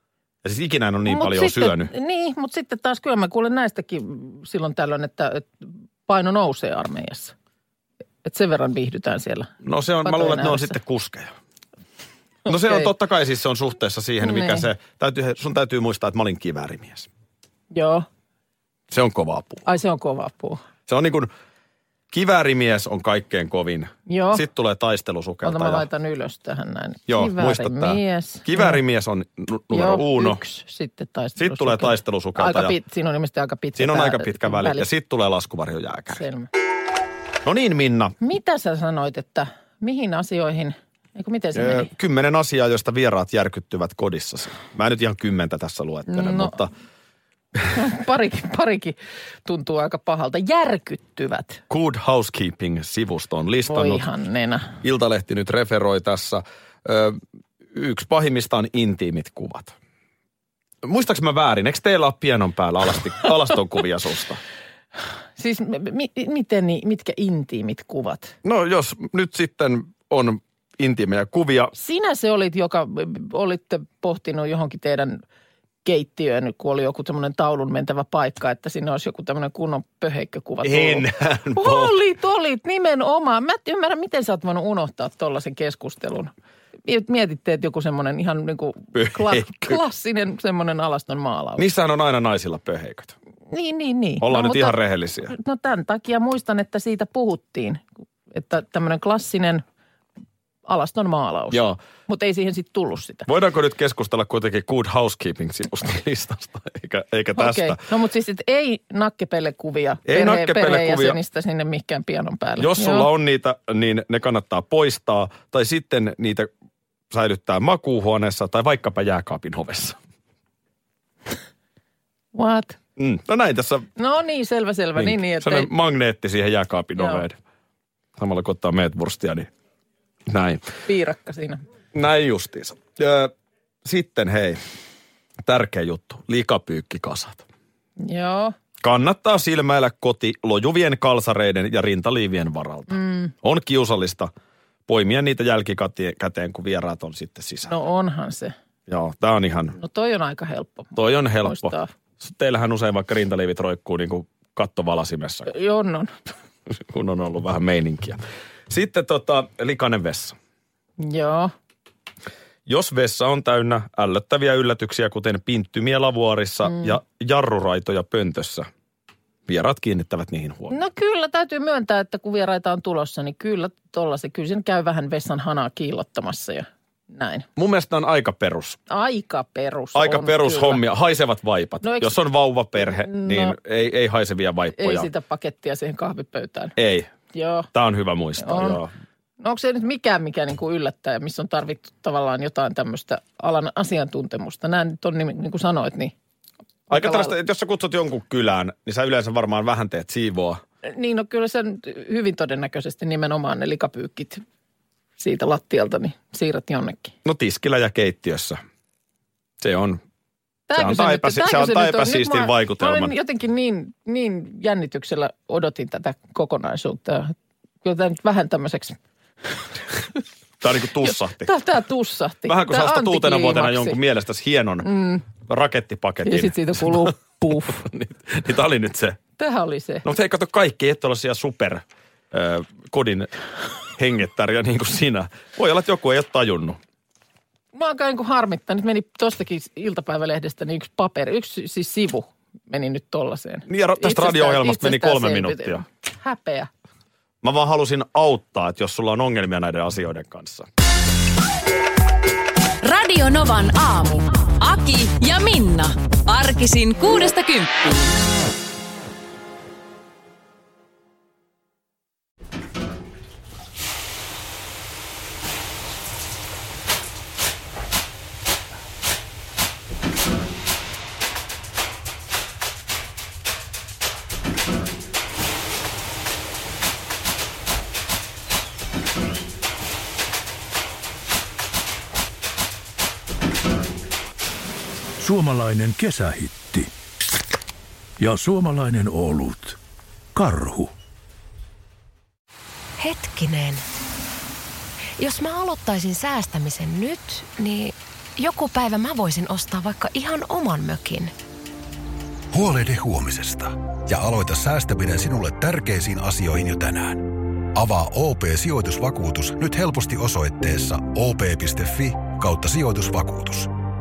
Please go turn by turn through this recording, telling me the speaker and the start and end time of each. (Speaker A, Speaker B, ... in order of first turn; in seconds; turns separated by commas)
Speaker A: 0.4-1.9, Speaker B: 1.1-7.3, Speaker B: 8.2-9.5, Speaker A: 9.6-11.3, Speaker B: 10.0-10.8, Speaker B: 12.5-12.9, Speaker A: 12.5-17.1, Speaker B: 14.2-14.7, Speaker B: 17.7-18.1, Speaker A: 18.9-19.7, Speaker B: 19.7-20.6, Speaker A: 20.9-21.3, Speaker A: 22.1-25.9, Speaker B: 24.1-24.4, Speaker B: 25.4-28.8, Speaker A: 27.1-30.4, Speaker B: 29.7-34.9, Speaker A: 31.4-32.8, Speaker A: 33.8-36.2, Speaker B: 36.1-36.5, Speaker A: 37.5-38.1, Speaker B: 38.2-41.9, Speaker A: 41.5-46.7, Speaker B: 46.1-46.6, Speaker B: 47.7-51.6, Speaker A: 51.7-54.1, Speaker B: 53.7-54.8, Speaker A: 54.8-57.2, Speaker A: 57.7-59.7, Speaker A: 60.8-64.4, Speaker B: 65.4-68.3, Speaker A: 68.4-71.7, Speaker B: 71.7-75.2, Speaker B: 75.8-86.3, Speaker A: 80.6-82.0, Speaker B: 86.8-91.7, Speaker A: 89.0-89.8, Speaker A: 91.6-93.2, Speaker B: 93.5-99.6, Speaker A: 94.2-95.3, Speaker B: 100.7-103.3, Speaker A: 101.5-101.8, Speaker A: 103.3-107.8, Speaker B: 107.3-113.1, Speaker A: 110.1-111.2, Speaker A: 112.6-116.5, Speaker A: 117.1-120.0, Speaker B: 122.3-122.8, Speaker A: 123.0-123.9, Speaker B: 124.0-125.7, Speaker A: 125.0-127.4, Speaker B: 127.0-127.2, Speaker A: 128.2-129.5, Speaker A: 130.3-130.7, Speaker B: 130.8-131.6, Speaker A: 131.9-133.3, Speaker A: 133.8-134.6, Speaker A: 135.5-137.5, Speaker B: 138.0-138.6, Speaker A: 138.8-144.3, Speaker B: 142.9-143.3, Speaker A: 144.9-147.7, Speaker B: 147.7-148.5, Speaker A: 148.9-149.8, Speaker B: 149.8-151.9, Speaker A: 150.9-155.5, Speaker B: 155.5-156.1, Speaker A: 156.8-158.2, Speaker A: 158.7-160.4, Speaker B: 161.0-161.5, Speaker A: 162.7-168.7, Speaker A: 169.5-170.8, Speaker B: 170.7-177.5, Speaker A: 177.6-178.8, Speaker B: 178.9-180.8, Speaker A: 179.9-185.1, Speaker B: 181.8-182.2, Speaker B: 182.8-183.6, Speaker B: 184.8-186.8, Speaker A: 186.8-187.1, Speaker B: 187.3-187.7, Speaker A: 187.7-188.9, Speaker B: 188.4-188.8, Speaker B: 189.4-196.1, Speaker B: 196.9-197.3, Speaker A: 196.9-200.6, Speaker B: 200.9-204.4, Speaker B: 205.2-207.2, Speaker A: 207.2-208.6, Speaker A: 209.6-210.0, Speaker B: 210.7-219.0, Speaker A: 210.8-213.1, Speaker A: 220.6-221.5, Speaker B: 221.0-224.0, Speaker A: 222.4-224.9, Speaker B: 224.8-225.3, Speaker A: 225.4-227.2, Speaker B: 226.2-227.8, Speaker A: 227.7-229.2, Speaker B: 229.4-230.0, Speaker A: 230.1-233.3, Speaker A: 234.0-236.8, Speaker B: 237.7-246.7, Speaker A: 243.7-245.8, Speaker A: 247.4-250.7, Speaker C: 252.8-258.1, Speaker D: 285.2-286.9, Speaker D: 288.2-289.8, Speaker D: 290.3-290.9, Speaker E: 293.0-293.8, Speaker E: 295.2-301.3, Speaker F: 302.5-313.7